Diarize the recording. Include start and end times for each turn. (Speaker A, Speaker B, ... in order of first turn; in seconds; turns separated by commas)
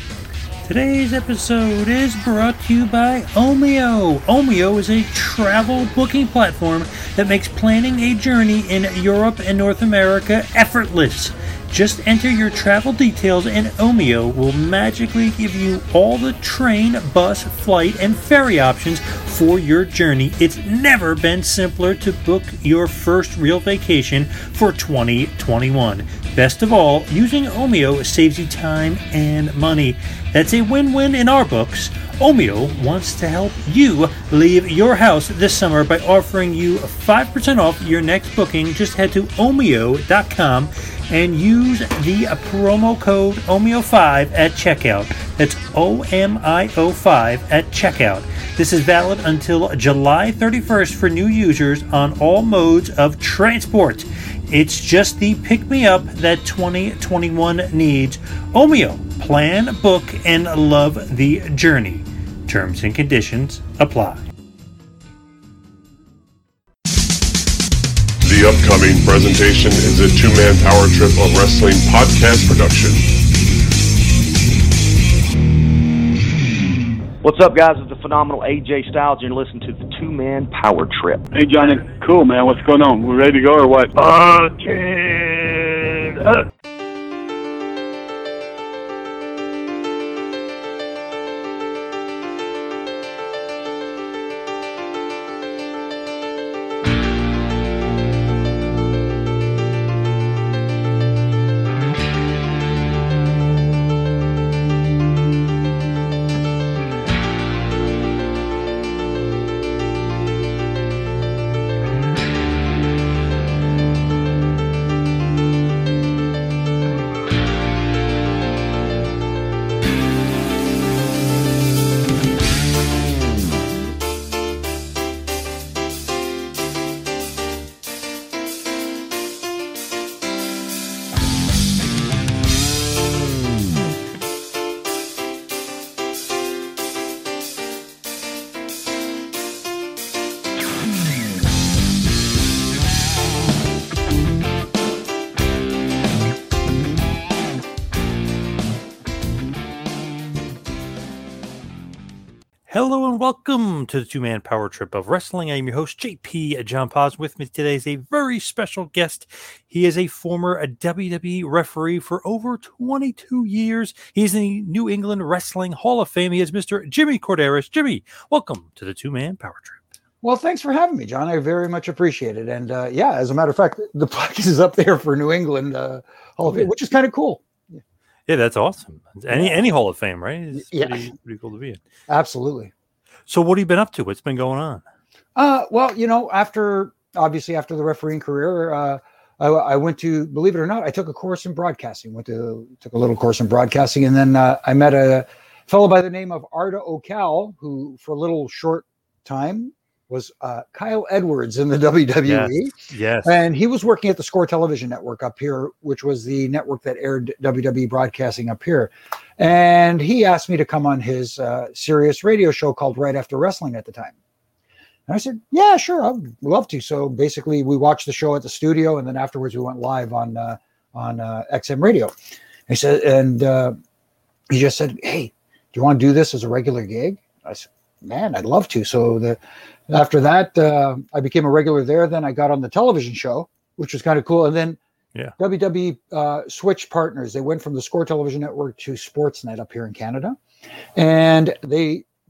Speaker A: 0.6-64.2, Speaker B: 68.2-73.0, Speaker C: 77.2-81.3, Speaker D: 81.3-86.5, Speaker A: 152.7-169.8, Speaker E: 170.2-177.8, Speaker A: 178.3-181.8, Speaker E: 179.3-179.7, Speaker E: 180.5-181.1, Speaker E: 182.1-182.7, Speaker A: 183.3-184.8, Speaker E: 185.4-202.7, Speaker A: 202.3-203.4, Speaker E: 203.2-214.2, Speaker E: 215.1-222.1, Speaker E: 222.7-223.8, Speaker E: 224.5-234.8, Speaker E: 235.4-240.4, Speaker E: 240.9-242.1